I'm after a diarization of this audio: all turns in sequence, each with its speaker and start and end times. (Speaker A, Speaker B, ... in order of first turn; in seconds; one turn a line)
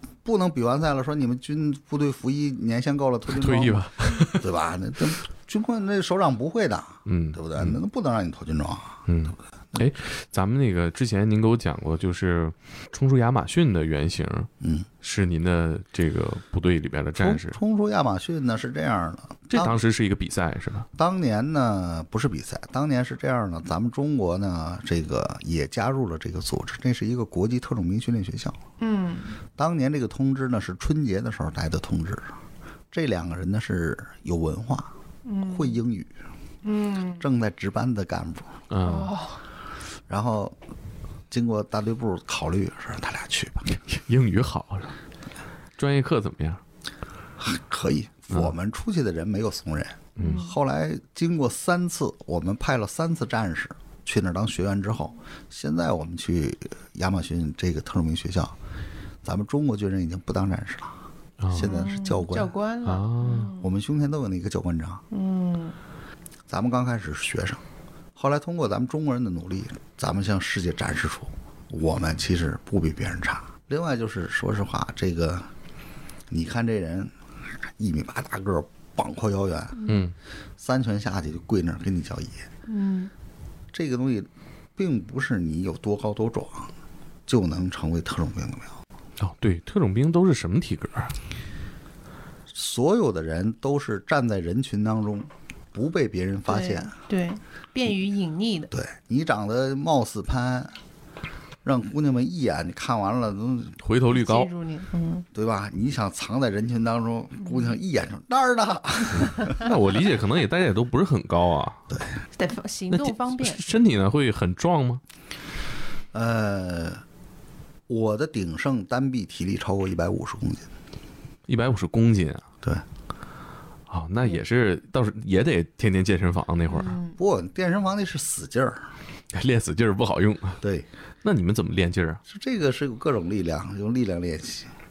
Speaker A: 0.2-9.1
Speaker B: 3.3-4.5
Speaker B: 7.0-7.8
Speaker B: 9.1-14.5
Speaker A: 14.6-14.9
Speaker B: 15.0-17.6
Speaker A: 17.1-19.8
Speaker B: 19.5-20.9
Speaker A: 20.9-28.6
Speaker C: 28.8-29.4
Speaker A: 29.6-32.3
Speaker A: 32.9-34.9
Speaker C: 35.2-35.8
Speaker A: 35.4-36.1
Speaker C: 36.6-37.2
Speaker A: 37.2-38.6
Speaker B: 38.7-39.1
Speaker C: 38.8-39.4
Speaker A: 40.1-40.6
Speaker A: 41.3-43.7
Speaker B: 43.7-45.0
Speaker B: 45.8-46.6
Speaker A: 47.4-58.5
Speaker B: 50.2-50.4
Speaker C: 50.2-50.5
Speaker A: 59.2-61.0
Speaker B: 61.4-61.7
Speaker A: 61.5-62.5
Speaker C: 61.6-63.7
Speaker B: 62.8-63.5
Speaker A: 63.6-65.0
Speaker C: 65.1-65.8
Speaker A: 66.5-67.6
Speaker A: 68.2-75.5
Speaker A: 76.3-77.1
Speaker A: 77.8-79.8
Speaker C: 79.8-80.0
Speaker B: 79.8-80.1
Speaker A: 80.6-82.5
Speaker C: 82.7-83.1
Speaker A: 83.7-86.7
Speaker A: 87.3-88.8
Speaker B: 89.2-91.1
Speaker A: 92.5-96.9
Speaker C: 96.5-98.7
Speaker A: 98.7-100.8
Speaker A: 101.6-103.8
Speaker B: 103.8-104.5
Speaker C: 104.1-105.2
Speaker A: 105.3-109.7
Speaker C: 107.4-107.7
Speaker B: 109.4-111.8
Speaker A: 111.9-112.2
Speaker C: 112.4-113.6
Speaker B: 112.9-115.0
Speaker A: 116.1-117.0
Speaker A: 117.9-120.7
Speaker B: 121.5-122.5
Speaker B: 123.9-127.0
Speaker C: 126.7-127.2
Speaker A: 127.2-128.9
Speaker B: 129.3-130.6
Speaker A: 130.6-130.9
Speaker B: 131.2-132.2
Speaker A: 132.2-134.7